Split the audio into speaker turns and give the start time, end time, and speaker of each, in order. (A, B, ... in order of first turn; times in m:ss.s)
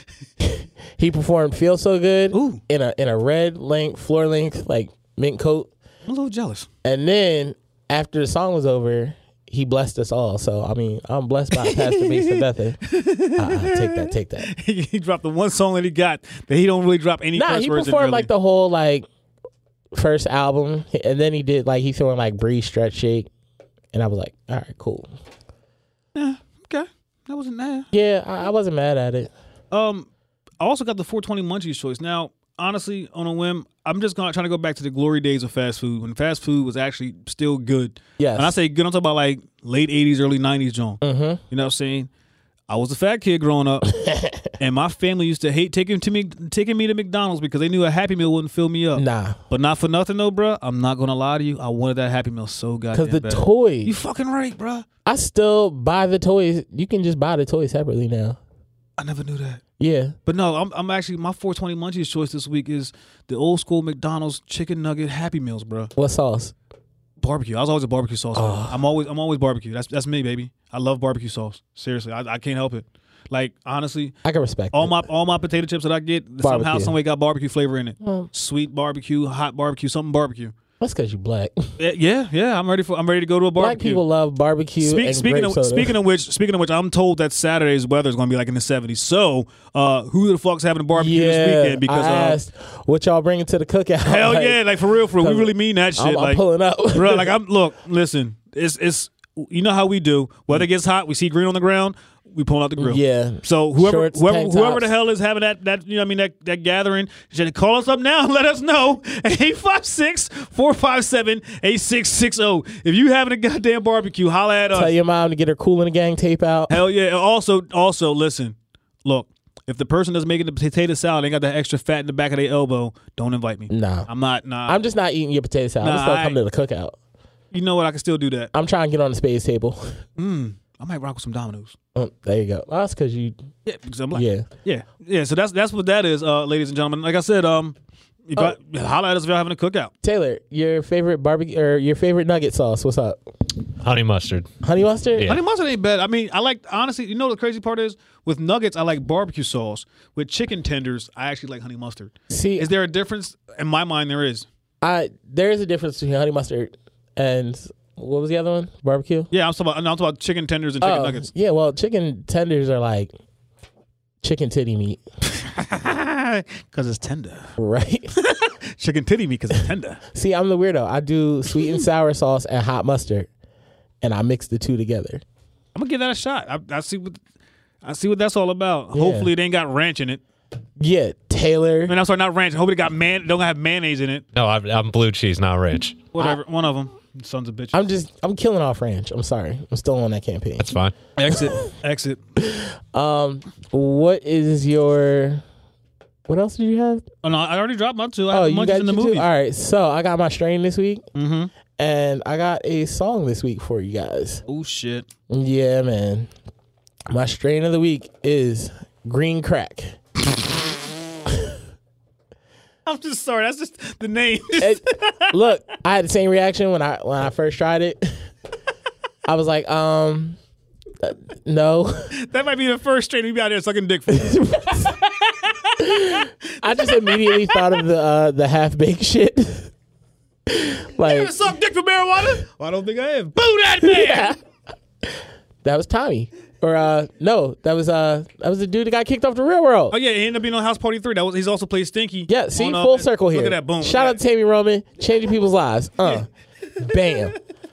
0:00.4-0:05.7 A
0:02.3-0:02.6 B
0:06.1-0:06.7 B
0:06.8-0:12.8 A
0:11.6-0:18.3 B
0:13.4-0:14.5 A
0:17.4-0:19.1 A
0:19.9-0:23.3 A
0:23.9-0:25.1 A
0:26.2-0:27.9 B
0:27.9-0:29.3 A
0:29.7-0:30.1 B
0:30.6-0:42.1 B
0:38.2-0:38.6 A
0:41.0-0:41.4 A
0:42.7-0:43.9 B
0:43.9-0:44.5 A
0:44.6-0:54.9 B
0:49.0-0:49.4 A
0:52.9-0:53.9 A
0:55.1-0:58.4 A
0:59.0-0:59.6 B
0:59.8-1:00.2 A
1:00.3-1:05.9 B
1:06.0-1:06.5 A
1:07.2-1:14.1 B
1:08.4-1:08.8 A
1:14.2-1:15.1 A
1:14.7-1:20.5 B
1:16.4-1:17.0 A
1:18.0-1:18.3 A
1:20.8-1:21.7 A
1:21.8-1:24.0 B
1:23.6-1:26.0 A
1:24.8-1:32.4 B
1:31.0-1:34.6 A
1:34.0-1:54.9 B
1:35.2-1:37.3 A
1:42.8-1:44.9 A
1:54.7-1:56.8 A
1:56.7-2:04.8 B
2:03.7-2:04.1 A
2:04.7-2:07.0 A
2:05.8-2:06.4 B
2:07.5-2:08.5 B
2:08.5-2:10.0 A
2:10.2-2:11.8 B
2:12.0-2:13.4 A
2:13.6-2:17.8 B
2:14.1-2:14.5 A
2:18.3-2:19.9 B
2:20.0-2:23.2 A
2:23.8-2:24.5 C
2:24.6-2:25.3 A
2:25.2-2:34.5 B
2:32.3-2:32.7 A
2:34.8-2:39.3 A
2:39.3-2:41.3 B
2:40.8-2:43.1 A
2:44.2-2:45.0 A
2:45.3-2:47.5 B
2:47.6-2:48.1 A
2:48.2-2:50.0 B
2:50.1-2:53.3 A
2:54.0-2:55.2 A
2:55.8-2:57.2 B
2:57.8-3:00.2 B
2:58.9-2:59.3 A
3:00.8-3:02.0 A
3:01.9-3:04.2 B
3:04.3-3:06.1 C
3:06.1-3:07.8 B
3:07.7-3:10.7 A
3:10.6-3:10.9 C
3:11.2-3:12.2 B
3:12.4-3:15.4 A
3:16.3-3:17.1 A
3:17.2-3:19.3 B
3:18.3-3:21.1 A
3:21.2-3:21.5 B
3:21.8-3:24.4 A
3:24.5-3:25.1 B
3:25.3-3:26.3 A
3:27.1-3:30.0 A
3:32.9-3:35.3 B
3:34.6-3:38.3 A
3:39.3-3:40.4 A
3:41.0-3:42.1 A
3:42.1-3:47.7 B
3:44.1-3:45.0 A
3:45.8-3:49.7 A
3:50.5-3:51.3 A
3:51.0-3:54.4 B
3:53.8-3:54.4 A
3:55.0-4:00.0 A
3:59.9-4:04.2 B
4:02.3-4:07.4 A